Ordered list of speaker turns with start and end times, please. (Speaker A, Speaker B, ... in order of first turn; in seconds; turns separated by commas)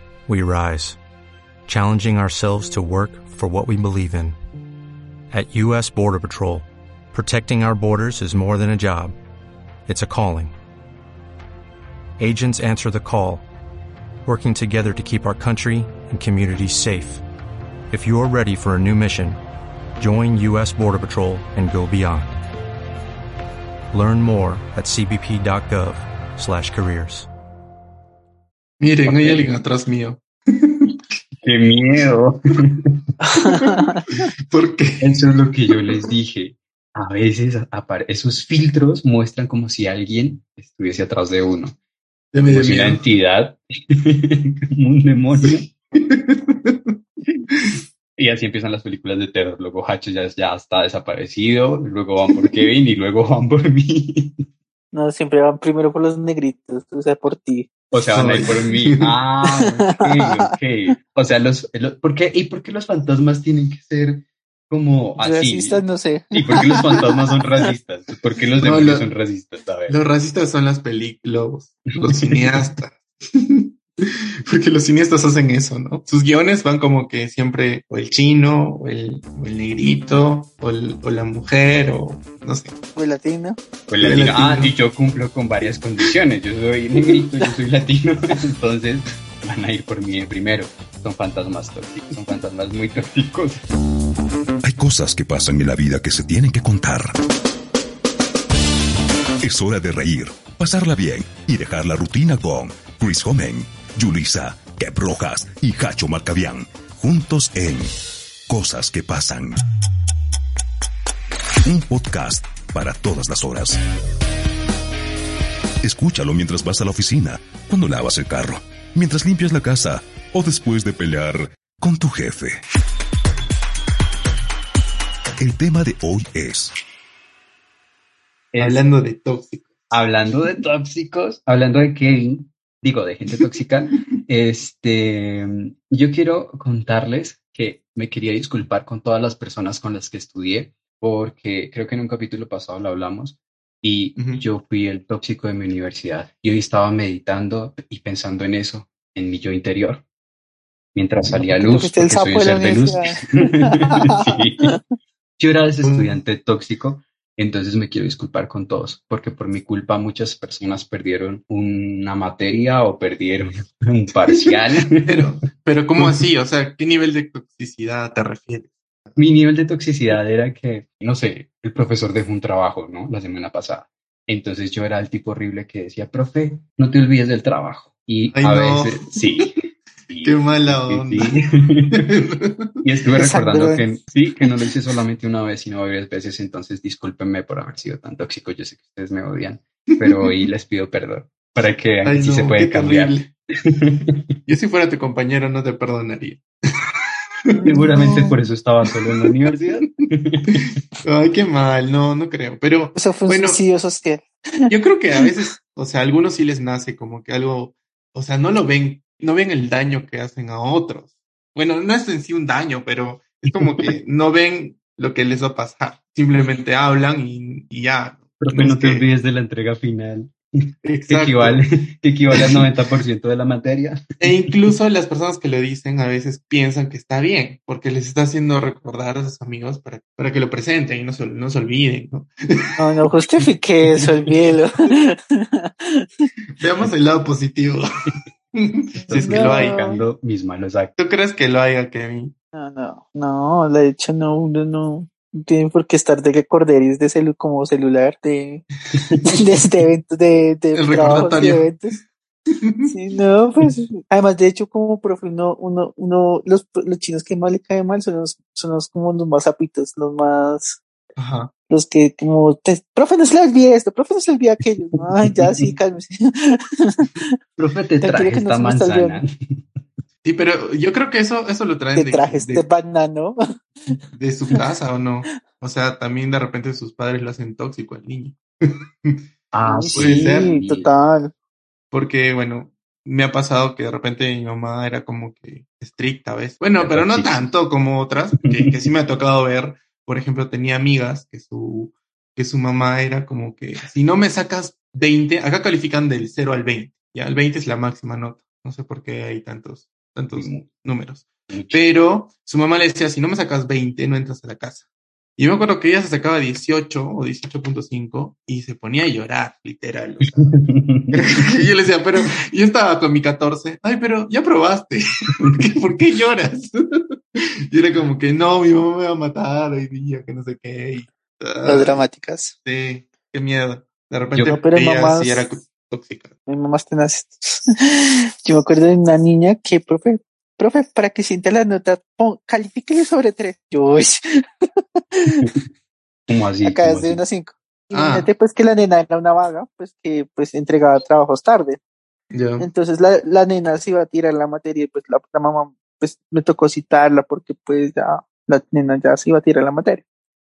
Speaker A: 0.3-1.0, Speaker A: 1.7-4.3, Speaker A: 5.3-9.1, Speaker A: 9.9-10.5, Speaker A: 12.2-13.4, Speaker A: 14.3-17.2, Speaker A: 17.9-19.4, Speaker A: 20.0-22.3, Speaker A: 23.9-27.3, Speaker B: 28.8-31.0, Speaker C: 29.1-29.5, Speaker C: 31.4-33.0, Speaker D: 33.2-34.0, Speaker B: 33.4-36.0, Speaker C: 35.0-41.8, Speaker B: 42.3-43.0, Speaker C: 42.5-45.7, Speaker B: 45.4-47.0, Speaker B: 47.5-47.8, Speaker C: 48.2-54.4, Speaker D: 54.9-57.7, Speaker C: 57.9-70.0, Speaker B: 58.1-59.2, Speaker D: 60.1-60.3, Speaker D: 65.2-67.1, Speaker B: 68.6-69.1, Speaker B: 69.9-82.7, Speaker C: 72.2-72.7, Speaker D: 83.0-83.6, Speaker C: 83.9-93.6, Speaker B: 84.0-84.7, Speaker E: 94.6-97.2, Speaker E: 99.4-108.0, Speaker E: 108.5-109.6, Speaker E: 111.6-113.8, Speaker E: 115.8-122.6, Speaker E: 125.4-126.7, Speaker C: 128.5-128.8, Speaker B: 128.6-129.8, Speaker C: 129.9-150.0, Speaker B: 144.2-144.4, Speaker C: 150.9-154.8, Speaker D: 151.5-154.3, Speaker C: 155.4-165.2, Speaker B: 155.8-156.2, Speaker B: 164.3-169.2, Speaker C: 169.2-179.6, Speaker B: 178.3-179.5, Speaker C: 180.1-182.1, Speaker B: 180.2-181.3, Speaker B: 181.9-182.7, Speaker C: 182.8-193.2, Speaker D: 183.2-183.8, Speaker B: 190.0-190.5, Speaker B: 192.0-193.3, Speaker C: 193.7-194.2, Speaker B: 194.5-196.9, Speaker D: 197.5-198.4, Speaker C: 197.7-200.8, Speaker B: 200.5-203.6, Speaker D: 202.9-205.3, Speaker B: 204.7-219.1, Speaker C: 213.5-213.8, Speaker C: 218.4-220.3, Speaker B: 220.8-221.6, Speaker C: 221.1-224.5, Speaker B: 222.3-222.7, Speaker B: 224.2-232.3, Speaker D: 232.8-236.1, Speaker B: 236.6-237.8, Speaker B: 238.5-240.0, Speaker C: 239.1-240.9, Speaker D: 239.1-240.0, Speaker B: 241.0-242.3, Speaker D: 242.5-248.6, Speaker C: 248.9-249.4, Speaker D: 249.3-251.9, Speaker B: 250.7-252.0, Speaker B: 252.5-252.9, Speaker D: 252.9-260.8, Speaker B: 261.2-261.5, Speaker D: 261.7-267.3, Speaker C: 267.6-269.6, Speaker D: 268.0-269.2, Speaker B: 270.2-272.7, Speaker D: 272.0-273.4, Speaker B: 274.1-278.4, Speaker C: 279.5-280.9, Speaker D: 279.6-281.3, Speaker B: 280.0-280.6, Speaker B: 281.9-304.9, Speaker C: 286.8-287.4, Speaker C: 300.4-300.7, Speaker C: 301.5-301.8, Speaker B: 305.4-310.6, Speaker C: 310.4-311.6, Speaker B: 311.1-316.7, Speaker B: 317.7-322.0, Speaker D: 321.6-322.5, Speaker B: 322.6-326.3, Speaker D: 324.5-325.6, Speaker D: 326.5-334.2, Speaker D: 335.2-335.4, Speaker C: 336.3-337.2, Speaker D: 336.6-341.8, Speaker B: 337.9-338.3, Speaker B: 342.3-342.7, Speaker D: 342.6-350.0